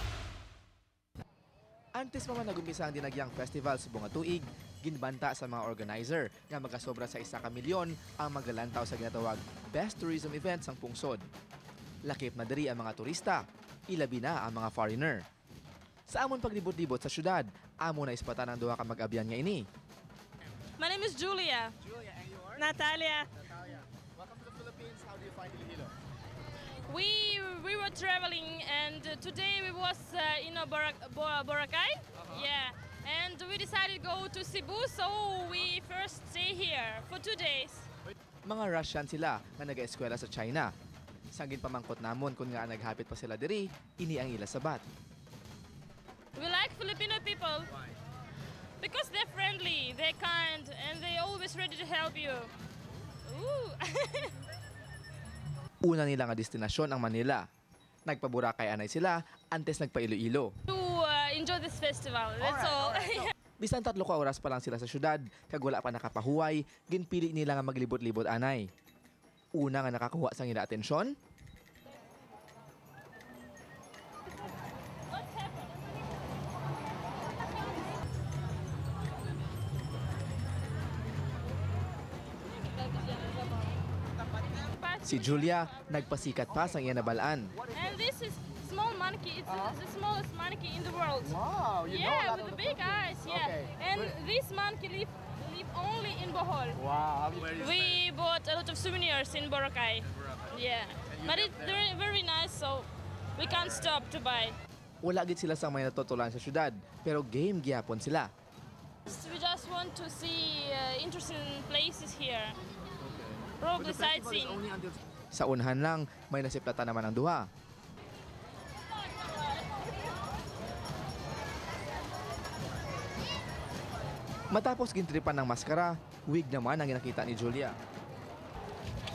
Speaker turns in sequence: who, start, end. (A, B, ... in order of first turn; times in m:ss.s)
0:02.0-0:11.2 A
0:12.0-0:15.2 A
0:16.1-0:19.6 A
0:20.8-0:21.7 B
0:22.0-0:22.4 A
0:22.4-0:23.3 B
0:24.2-0:25.9 A
0:26.8-0:37.9 B
0:38.4-0:40.7 A
0:41.3-0:44.8 A
0:46.4-0:47.7 B
0:48.8-0:52.5 B
0:53.2-0:54.4 B
0:55.8-0:57.4 A
0:58.1-1:00.5 A
1:00.7-1:03.3 B
1:02.4-1:08.6 A
1:09.5-1:11.1 A
1:15.2-1:15.5 B
1:24.7-1:25.8 B
1:25.0-1:27.6 A
1:27.7-1:36.8 B
1:31.3-1:34.1 C
1:36.8-1:37.6 C
1:37.5-1:44.6 B
1:45.0-1:48.3 A
1:49.1-1:52.6 B
1:53.6-1:54.6 B
1:53.8-1:57.5 A
2:04.5-2:07.8 A